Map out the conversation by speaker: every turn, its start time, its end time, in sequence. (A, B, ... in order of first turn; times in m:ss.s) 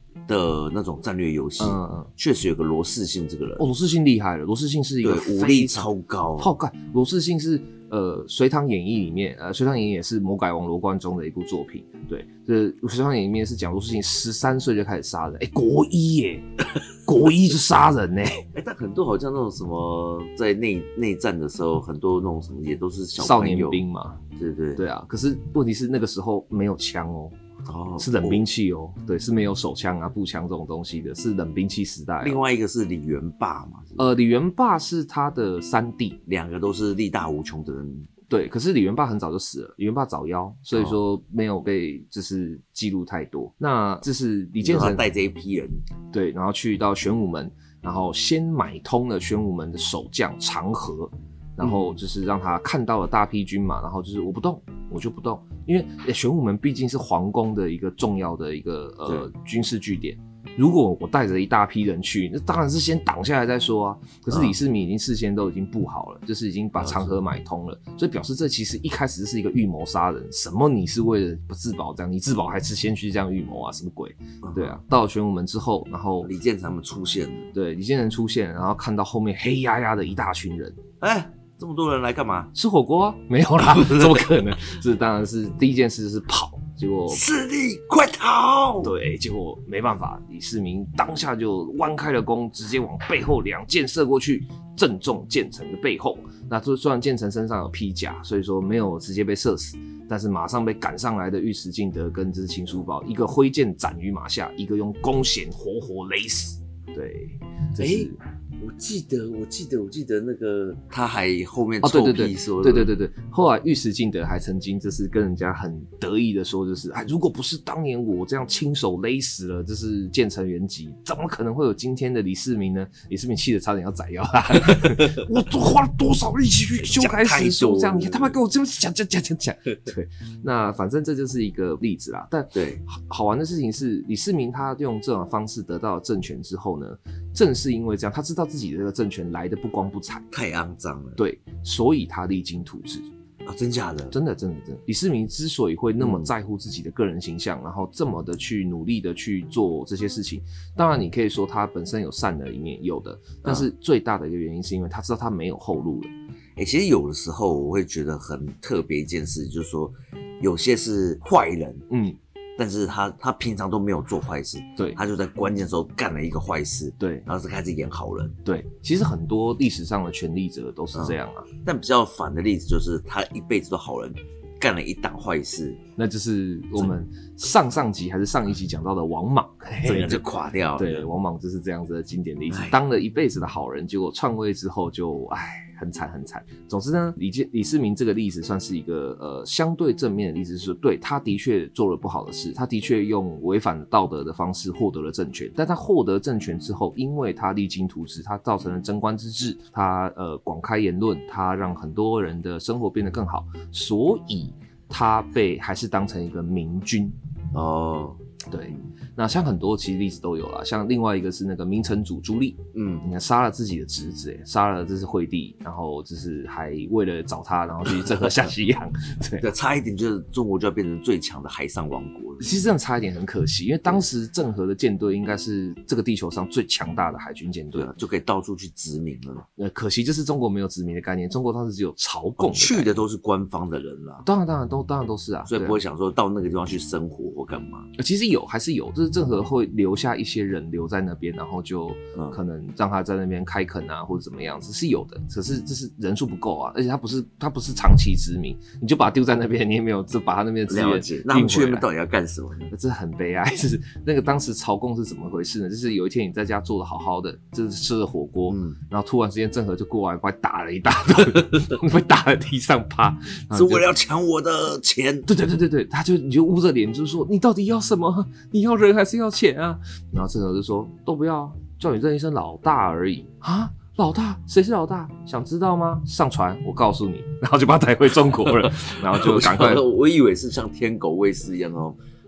0:00.3-0:03.7 A
0:01.6-0:02.1 B
0:03.6-0:18.5 B
0:05.0-0:06.5 A
0:18.5-0:23.8 A
0:23.2-0:24.2 B
0:24.4-0:24.8 A
0:24.8-0:27.4 B
0:27.7-0:28.4 A
0:28.0-0:32.4 B
0:32.2-0:34.0 A
0:34.0-0:36.2 B
0:36.3-0:38.1 A
0:38.3-0:45.0 B
0:44.6-0:45.8 A
0:46.1-1:16.3 B
1:04.3-1:04.6 A
1:06.8-1:07.2 A
1:14.4-1:14.8 A
1:16.2-1:17.5 A
1:17.5-1:20.8 B
1:21.0-1:22.5 A
1:22.5-1:27.2 B
1:23.8-1:24.2 A
1:27.1-1:28.9 A
1:28.8-1:48.2 B
1:47.8-1:52.9 A
1:51.8-2:20.3 B
2:04.7-2:05.2 A
2:06.8-2:08.4 A
2:12.5-2:12.8 A
2:20.3-2:21.2 A
2:21.2-2:23.1 B
2:23.5-2:24.2 A
2:24.1-2:36.1 B
2:26.0-2:26.3 A
2:36.6-2:41.9 A
2:41.9-2:42.2 B
2:42.6-2:48.4 A
2:47.0-2:47.3 B
2:48.4-2:51.5 B
2:50.9-2:55.8 A
2:56.0-3:00.2 B
2:59.8-3:01.1 A
3:00.8-3:27.2 B
3:02.5-3:02.8 A
3:27.5-3:28.2 A
3:28.5-3:39.5 B
3:32.7-3:33.0 A
3:38.0-3:38.5 A
3:39.4-3:42.5 A
3:42.4-3:47.9 B
3:47.7-3:49.5 A
3:49.6-3:53.0 B
3:52.4-3:54.3 A
3:54.2-3:55.8 B
3:55.5-3:57.9 A
3:58.0-4:11.9 B
4:10.7-4:12.7 A
4:12.7-4:23.9 B
4:18.5-4:18.8 A
4:23.5-4:25.3 A
4:25.3-4:39.8 B
4:38.5-4:42.0 A